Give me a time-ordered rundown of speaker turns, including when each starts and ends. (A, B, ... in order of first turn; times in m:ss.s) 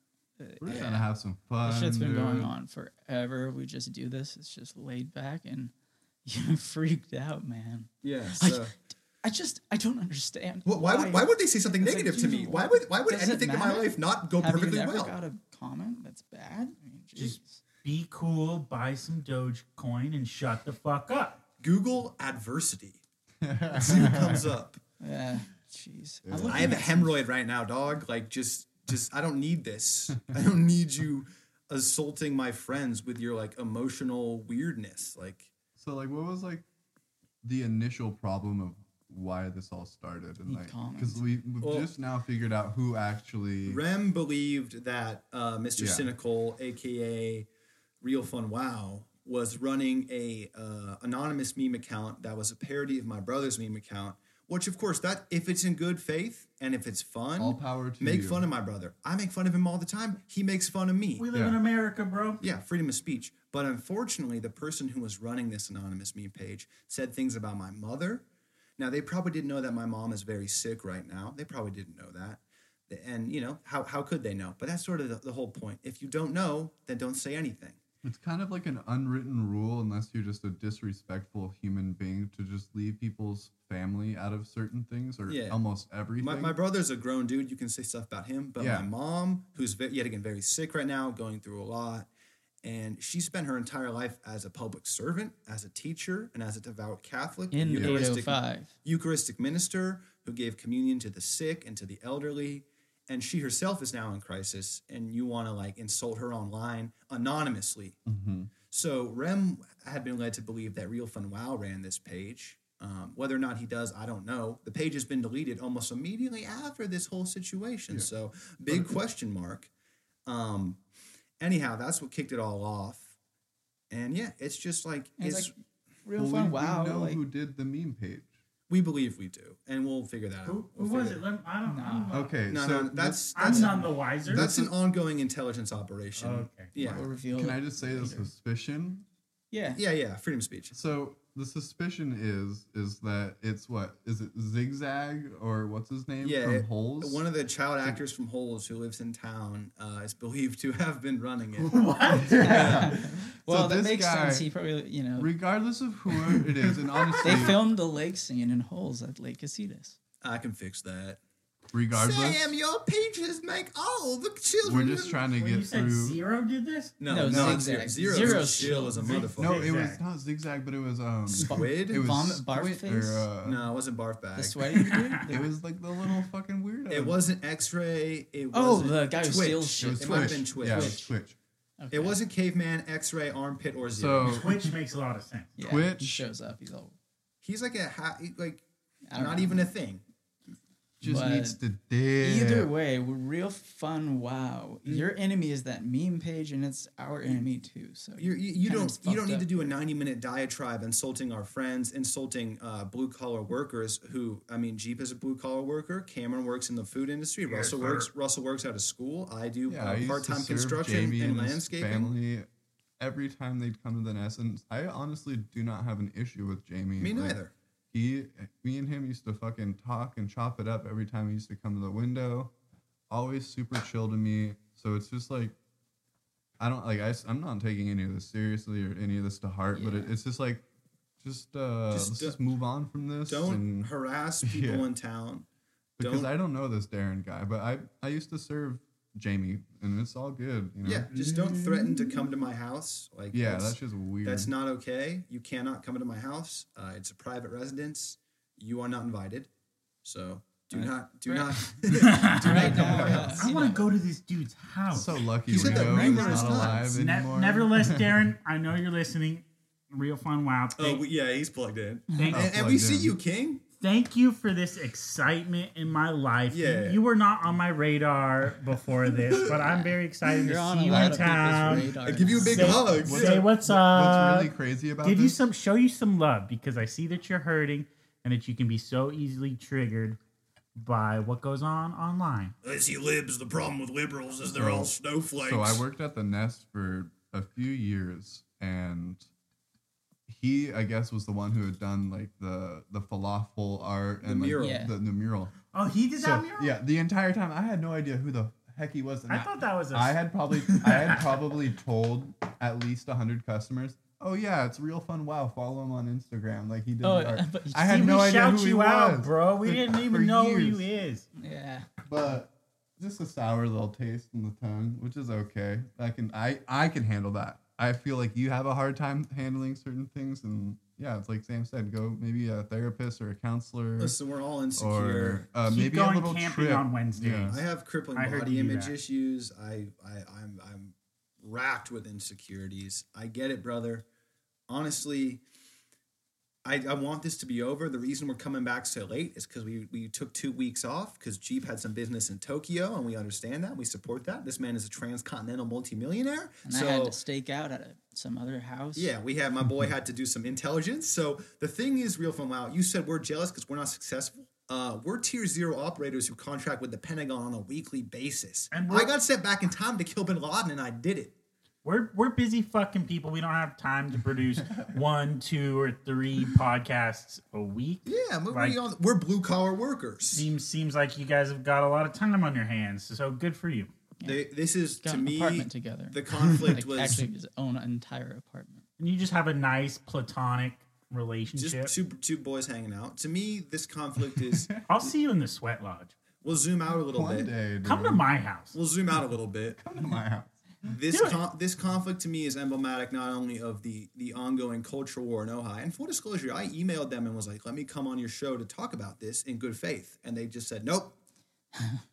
0:00.4-0:01.1 A
0:00.6-0:02.5 B
0:01.6-0:05.7 A
0:06.2-0:17.6 A
0:08.0-0:08.7 C
0:10.6-0:15.2 C
0:17.2-0:21.4 D
0:21.6-0:23.0 C
0:23.4-0:24.6 B
0:23.7-0:24.8 C
0:25.0-0:27.2 A
0:26.2-0:26.8 B
0:26.4-0:35.5 C
0:35.8-0:36.6 B
0:37.4-0:43.8 B
0:40.5-0:41.2 A
0:41.6-0:41.9 C
0:43.7-0:47.5 C
0:45.8-0:46.1 B
0:48.0-1:01.3 C
0:57.4-0:58.5 B
1:01.2-1:02.4 D
1:01.3-1:01.6 B
1:02.4-1:08.2 C
1:08.8-1:17.8 C
1:18.0-1:26.6 B
1:25.3-1:25.6 C
1:26.2-1:32.1 C
1:28.6-1:28.9 B
1:32.6-1:48.0 C
1:37.5-1:38.8 A
1:37.7-1:38.0 B
1:48.1-1:48.5 B
1:48.7-1:59.7 C
2:00.3-2:00.8 C
2:01.4-2:03.1 C
2:03.9-2:05.5 C
2:05.2-2:05.5 A
2:06.0-2:07.2 A
2:06.2-2:08.3 B
2:08.7-2:11.2 C
2:10.4-2:12.3 D
2:11.7-2:12.2 A
2:12.1-2:14.7 B
2:12.5-2:17.2 C
2:13.4-2:14.5 D
2:16.2-2:16.8 D
2:16.8-2:18.3 A
2:17.3-2:19.0 B
2:19.5-2:19.8 A
2:19.7-2:20.7 C
2:20.7-2:27.2 B
2:26.2-2:31.8 C
2:31.7-2:32.9 D
2:32.2-2:34.5 B
2:32.4-2:35.3 A
2:32.5-2:32.9 C
2:35.2-2:37.6 B
2:37.2-2:40.0 A
2:37.2-2:37.6 C
2:40.2-2:41.2 C
2:41.7-2:42.6 B
2:41.9-2:45.2 C
2:44.6-2:46.2 B
2:45.3-2:47.0 D
2:47.0-2:49.8 C
2:47.1-2:49.3 A
2:47.1-2:48.7 B
2:48.6-2:50.0 D
2:49.4-2:53.7 B
2:51.3-2:53.3 A
2:51.3-2:52.1 C
2:53.4-2:54.9 C
2:54.4-2:55.5 A
2:54.8-2:55.2 D
2:55.3-2:57.2 B
2:56.9-3:01.0 C
2:58.5-3:01.1 A
2:59.8-3:01.4 B
3:01.8-3:02.2 A
3:01.9-3:04.4 C
3:04.0-3:04.7 B
3:04.3-3:05.5 D
3:05.6-3:07.0 A
3:05.6-3:06.3 B
3:07.4-3:10.0 C
3:09.1-3:09.7 A
3:11.0-3:12.7 B
3:11.0-3:11.6 A
3:12.2-3:19.7 A
3:18.2-3:32.1 C
3:27.4-3:28.1 D
3:29.7-3:32.5 B
3:33.0-3:37.4 B
3:37.0-3:37.5 C
3:37.9-3:42.5 B
3:43.1-3:45.6 B
3:46.6-3:50.6 B
3:49.7-3:50.1 A
3:51.2-3:53.9 B
3:51.9-3:52.4 C
3:53.3-3:55.5 C
3:54.4-3:54.9 B
3:56.0-4:01.1 B
3:56.0-3:56.3 C
4:00.8-4:09.5 C
4:01.1-4:02.2 D
4:03.3-4:04.5 B
4:10.0-4:13.5 C
4:11.3-4:21.0 D
4:12.4-4:13.9 A
4:12.7-4:13.4 B
4:14.9-4:18.2 B
4:15.5-4:16.9 C
4:20.8-4:23.6 C
4:22.2-4:22.5 D
4:22.3-4:23.2 B
4:23.8-4:40.2 D
4:26.5-4:27.0 C
4:29.2-4:29.5 C
4:29.7-4:33.0 A
4:30.9-4:31.8 B
4:32.0-4:33.5 C
4:32.8-4:35.4 B
4:40.8-4:42.6 D
4:42.6-4:45.8 C
4:44.5-4:49.3 B
4:50.3-4:55.5 B
4:54.2-4:54.8 C
4:54.6-4:54.9 A
4:55.7-4:56.8 D
4:56.2-5:10.8 B
4:59.3-5:01.3 D
5:07.0-5:08.0 A
5:07.9-5:11.3 D
5:11.4-5:11.9 A
5:12.1-5:24.2 B
5:24.0-5:25.4 C
5:24.8-5:27.6 B
5:25.7-5:29.0 D
5:27.5-5:34.0 C
5:34.7-5:35.4 C
5:36.6-5:47.2 C
5:46.6-5:49.1 A
5:49.0-6:01.3 C
5:58.7-5:59.1 D
6:01.8-6:08.8 D
6:08.0-6:10.5 C
6:10.3-6:13.9 D
6:14.2-6:17.3 C
6:15.0-6:18.8 A
6:19.0-6:21.9 D
6:21.6-6:24.7 C
6:24.8-6:26.1 D
6:26.4-6:27.5 C
6:27.1-6:28.2 B
6:27.8-6:28.8 D
6:28.7-6:29.8 C
6:29.8-6:30.5 B
6:30.8-6:41.2 C
6:31.1-6:31.4 D